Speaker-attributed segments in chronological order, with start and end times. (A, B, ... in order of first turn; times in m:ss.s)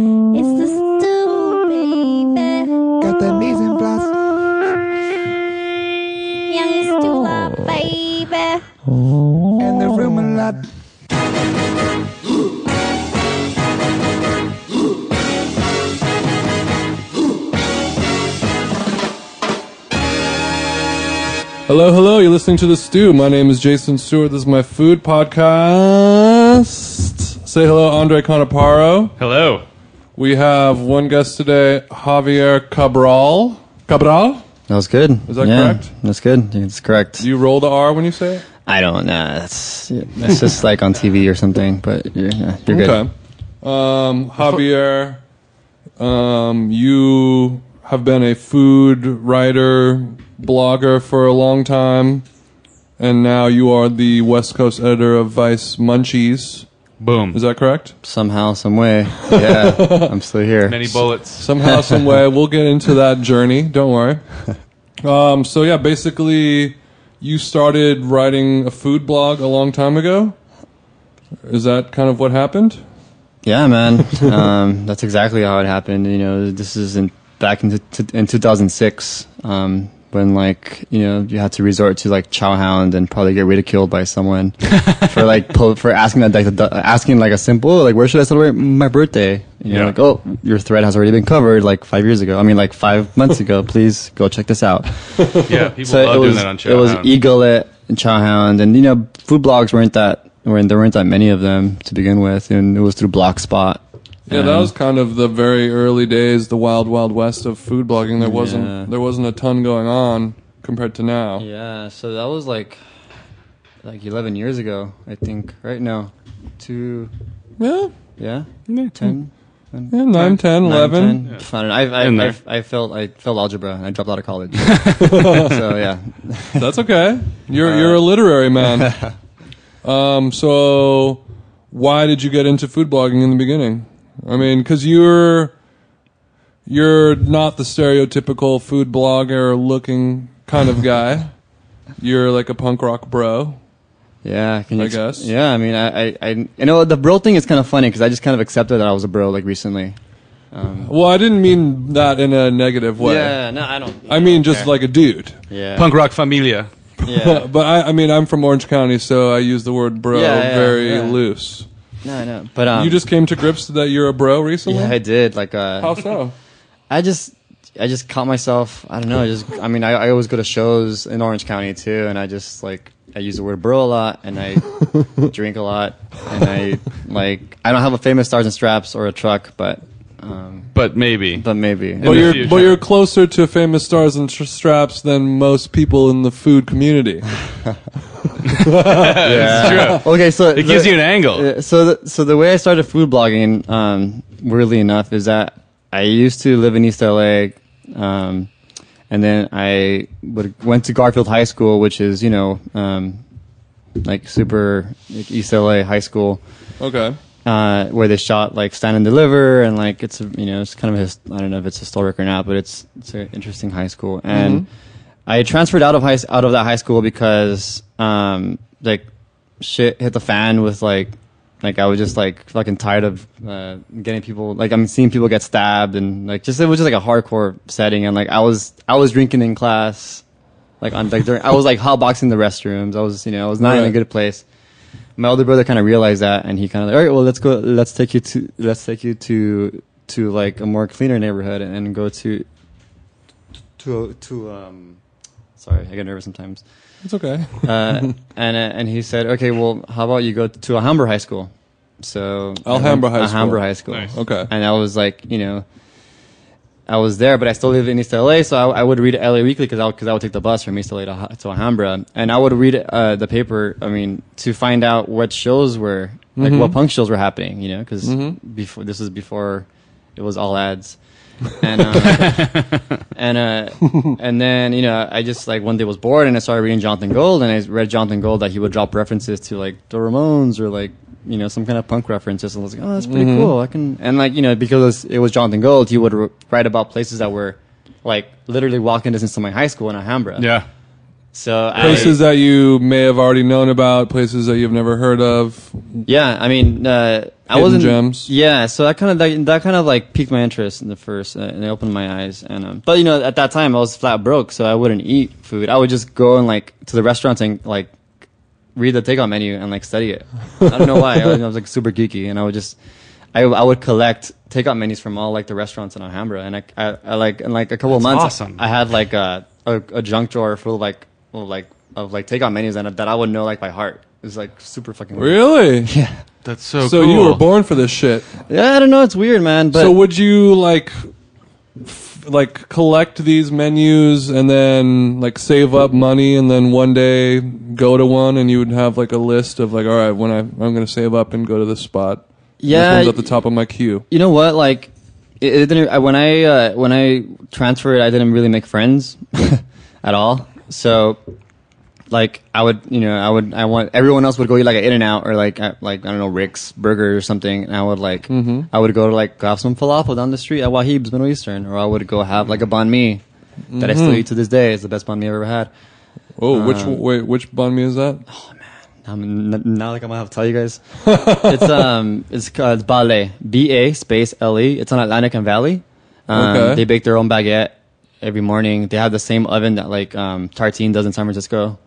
0:00.3-0:02.7 A
0:03.0-0:04.2 B
0:06.5-0:08.6 A
0:09.6-0:10.7 B
0:21.7-0:29.1 C
0:29.2-0:29.6 D
0:30.2-0:34.5 C
0:34.7-0:37.3 E
0:35.3-0:35.9 C
0:37.2-0:38.4 C
0:38.6-0:43.0 E
0:42.7-0:45.2 C
0:46.0-0:52.2 C
0:53.0-0:56.7 C
0:57.0-0:57.4 D
0:57.3-0:58.0 C
0:58.0-1:01.1 E
0:59.4-1:00.1 C
1:00.6-1:01.5 D
1:01.4-1:04.2 C
1:01.6-1:02.2 E
1:05.0-1:10.4 C
1:11.5-1:12.8 C
1:13.4-1:44.7 E
1:24.8-1:25.0 D
1:29.7-1:30.0 D
1:35.5-1:37.1 D
1:44.3-1:51.5 C
1:48.2-1:48.9 E
1:51.4-1:52.8 E
1:53.8-1:57.1 E
1:57.6-1:58.0 C
1:58.2-2:06.7 E
1:58.7-1:58.9 D
1:59.9-2:01.2 C
2:01.2-2:02.4 D
2:04.7-2:05.0 D
2:05.0-2:05.6 C
2:06.6-2:09.0 C
2:07.6-2:09.2 E
2:09.8-2:15.6 C
2:16.7-2:21.4 C
2:22.0-2:23.6 C
2:24.2-2:30.0 E
2:24.8-2:25.3 C
2:30.5-2:30.9 E
2:30.8-2:33.4 C
2:33.0-2:34.7 E
2:34.1-2:35.4 C
2:35.5-2:35.9 E
2:35.8-2:36.7 D
2:37.0-2:41.7 C
2:37.0-2:37.5 E
2:40.1-2:41.2 E
2:42.0-2:43.0 E
2:42.8-2:45.0 C
2:44.7-2:46.1 E
2:45.8-2:46.4 C
2:46.9-3:00.8 E
3:00.7-3:02.8 D
3:01.3-3:02.8 E
3:02.0-3:07.3 C
3:08.4-3:10.0 C
3:08.6-3:11.5 D
3:09.2-3:18.5 E
3:19.1-3:23.2 E
3:24.0-3:26.4 E
3:26.8-3:27.2 C
3:27.4-3:34.7 E
3:34.3-3:34.7 C
3:35.3-3:39.1 E
3:39.6-3:50.2 E
3:50.8-3:54.4 E
3:53.6-3:54.0 C
3:55.2-4:02.5 E
4:03.8-4:05.0 E
4:05.6-4:06.6 E
4:07.0-4:08.1 C
4:07.6-4:15.7 E
4:12.6-4:14.5 C
4:13.9-4:14.1 D
4:16.9-4:50.5 E
4:26.4-4:26.8 C
4:28.0-4:28.4 C
4:32.0-4:32.9 D
4:43.0-4:43.5 C
4:50.4-4:50.7 D
4:51.3-4:52.2 E
4:51.8-4:56.1 C
4:51.8-4:52.1 D
4:56.1-5:07.9 E
4:57.5-4:58.3 C
5:08.8-5:12.8 E
5:13.3-5:26.2 E
5:17.9-5:18.6 D
5:25.2-5:25.9 C
5:26.4-5:27.4 D
5:26.8-5:28.4 C
5:28.5-5:30.0 E
5:29.7-5:31.1 C
5:31.8-5:44.0 C
5:42.6-5:43.4 E
5:44.1-5:51.2 E
5:52.1-6:03.2 E
5:58.3-5:58.7 C
6:03.7-6:04.2 C
6:03.8-6:05.7 E
6:06.4-6:08.2 C
6:06.5-6:07.0 E
6:08.3-6:21.8 E
6:11.1-6:11.9 C
6:16.3-6:16.8 C